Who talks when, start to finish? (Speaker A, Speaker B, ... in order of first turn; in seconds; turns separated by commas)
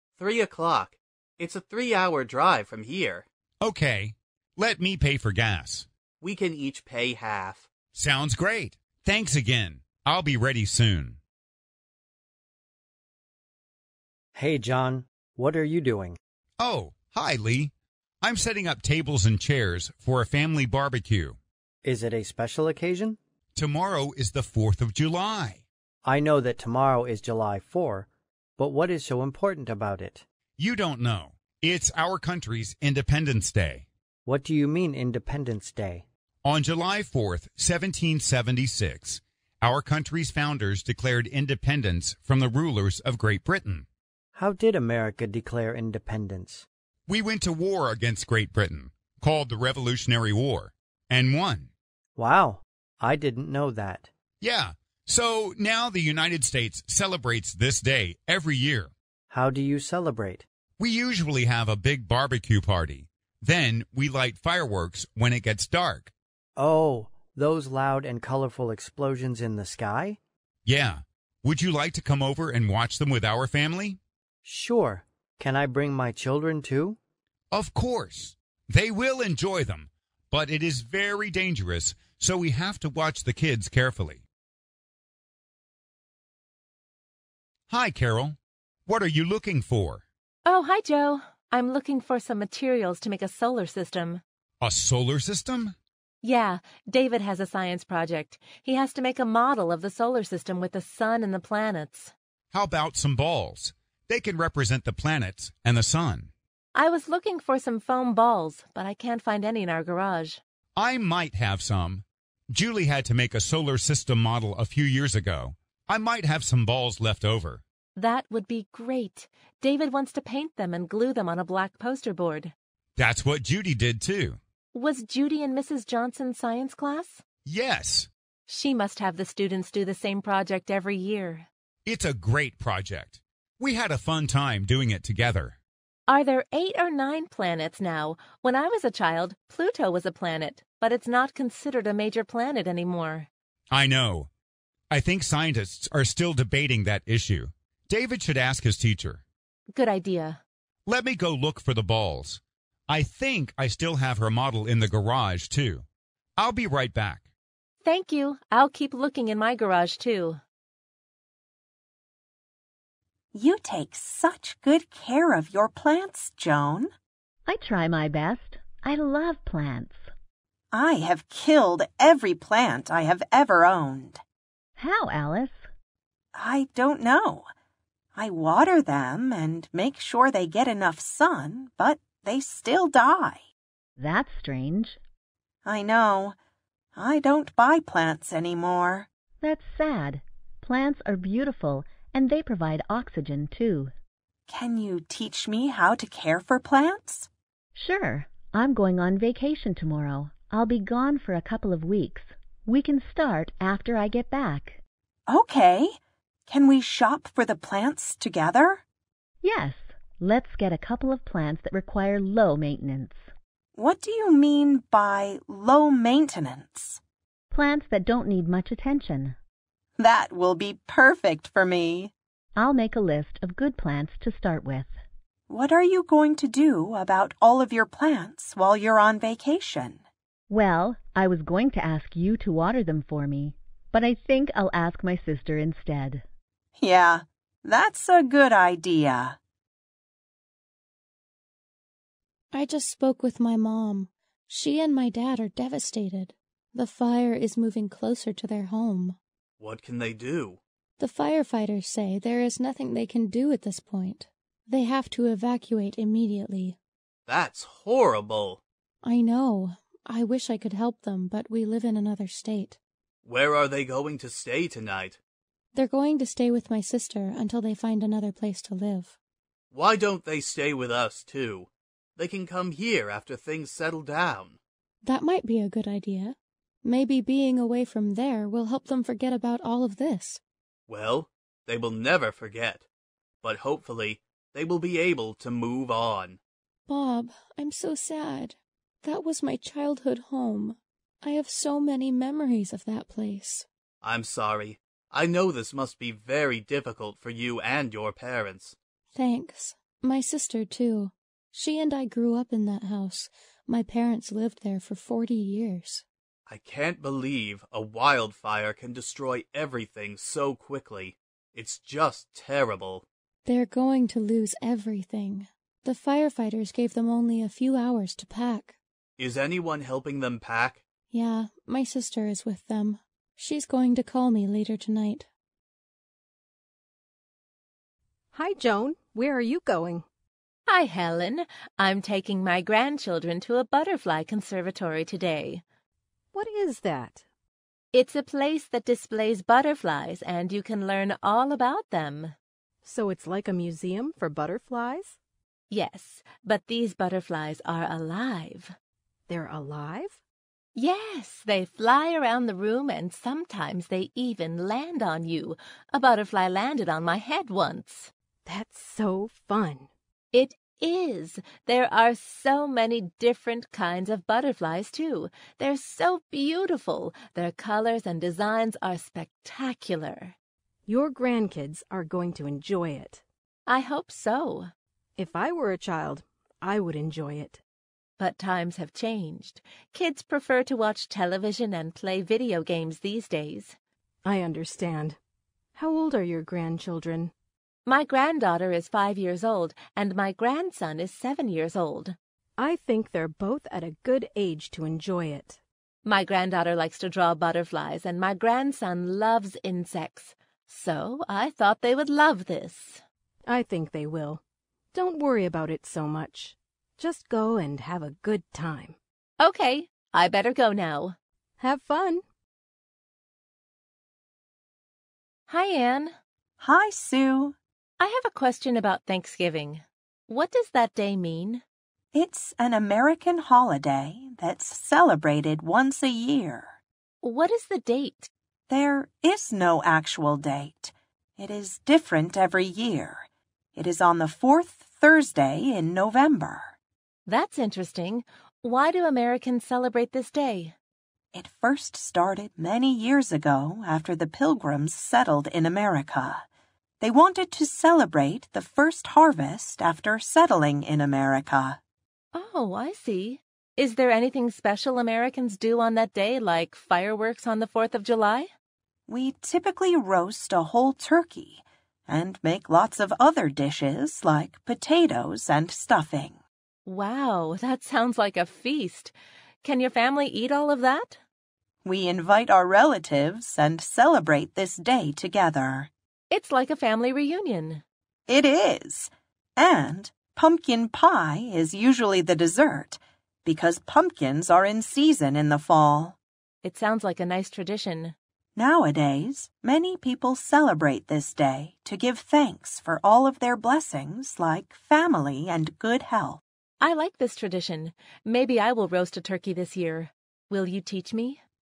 Speaker A: 0.1-3.2, Speaker B: 3.6-5.9, Speaker A: 6.2-7.7, Speaker B: 7.9-11.2, Speaker C: 14.3-16.2, Speaker B: 16.6-21.4, Speaker C: 21.8-23.2, Speaker B: 23.5-25.6, Speaker C: 26.0-30.2, Speaker B: 30.6-33.9, Speaker C: 34.2-36.0, Speaker B: 36.4-43.8, Speaker C: 44.3-46.7, Speaker B: 47.1-51.7, Speaker C: 52.1-54.1, Speaker B: 54.4-58.9, Speaker C: 59.3-60.5, Speaker B: 60.8-66.1, Speaker C: 66.6-70.2, Speaker B: 70.6-74.0, Speaker C: 74.4-77.0, Speaker B: 77.5-84.2, Speaker B: 87.7-90.0, Speaker D: 90.5-94.2, Speaker B: 94.6-95.7, Speaker D: 96.2-102.1, Speaker B: 102.5-106.3, Speaker D: 106.7-110.4, Speaker B: 110.8-117.6, Speaker D: 118.0-122.5, Speaker B: 123.0-124.4, Speaker D: 124.7-127.2, Speaker B: 127.4-128.1, Speaker D: 128.5-131.5, Speaker B: 131.8-135.6, Speaker D: 136.1-143.3, Speaker B: 143.7-144.3, Speaker B: 144.9-149.2, Speaker D: 149.7-150.4, Speaker B: 150.9-155.8, Speaker B: 156.4-157.3, Speaker D: 157.8-160.4, Speaker E: 163.3-166.9, Speaker F: 167.4-170.1, Speaker E: 170.7-174.2, Speaker F: 174.8-175.7, Speaker E: 176.3-177.5, Speaker E: 178.1-183.4, Speaker F: 184.0-185.0, Speaker E: 185.6-186.3, Speaker E: 186.9-189.1, Speaker F: 189.4-193.9, Speaker E: 194.5-197.3, Speaker F: 197.7-204.8, Speaker E: 205.3-208.8, Speaker F: 209.4-213.2, Speaker E: 213.8-217.0, Speaker F: 217.5-219.3, Speaker E: 220.0-222.1, Speaker F: 222.6-224.9, Speaker E: 225.5-230.0, Speaker F: 230.5-236.2, Speaker E: 236.8-239.4, Speaker G: 242.5-249.2, Speaker A: 249.6-250.6, Speaker G: 251.0-256.8, Speaker A: 257.3-258.6, Speaker G: 259.0-262.8, Speaker A: 263.2-265.2, Speaker G: 265.7-269.1, Speaker A: 269.7-274.6, Speaker G: 275.0-280.4, Speaker A: 280.9-282.9, Speaker A: 283.4-286.4, Speaker G: 286.9-293.7, Speaker A: 294.0-298.8, Speaker G: 299.1-306.0, Speaker A: 306.5-313.0, Speaker G: 313.4-318.8, Speaker A: 319.2-320.8, Speaker G: 321.1-325.3, Speaker H: 328.3-330.1, Speaker D: 330.7-335.6, Speaker H: 336.3-337.2, Speaker D: 337.9-342.3, Speaker H: 342.8-345.2, Speaker D: 345.7-348.7, Speaker H: 349.3-350.2, Speaker D: 350.7-358.1, Speaker H: 358.4-359.9, Speaker D: 360.3-370.3, Speaker H: 370.9-373.2, Speaker D: 373.7-374.7, Speaker H: 375.2-377.6, Speaker D: 378.2-383.8, Speaker H: 384.2-385.2, Speaker H: 385.7-387.3, Speaker D: 387.9-392.1, Speaker H: 392.6-395.6, Speaker D: 396.0-403.0, Speaker H: 403.5-404.4, Speaker H: 404.9-409.0, Speaker D: 409.4-411.2, Speaker H: 411.6-412.2, Speaker D: 415.5-416.1, Speaker E: 416.6-417.6, Speaker D: 418.0-421.6, Speaker E: 422.1-426.8, Speaker D: 427.2-428.3, Speaker E: 428.7-436.7, Speaker D: 437.3-440.7, Speaker E: 441.3-446.4, Speaker E: 447.0-451.8, Speaker D: 452.3-458.5, Speaker E: 459.1-466.4, Speaker D: 466.9-471.2, Speaker E: 471.8-475.9, Speaker D: 476.3-477.8, Speaker E: 478.3-486.2, Speaker D: 486.6-488.1, Speaker E: 488.6-496.4, Speaker D: 496.8-501.4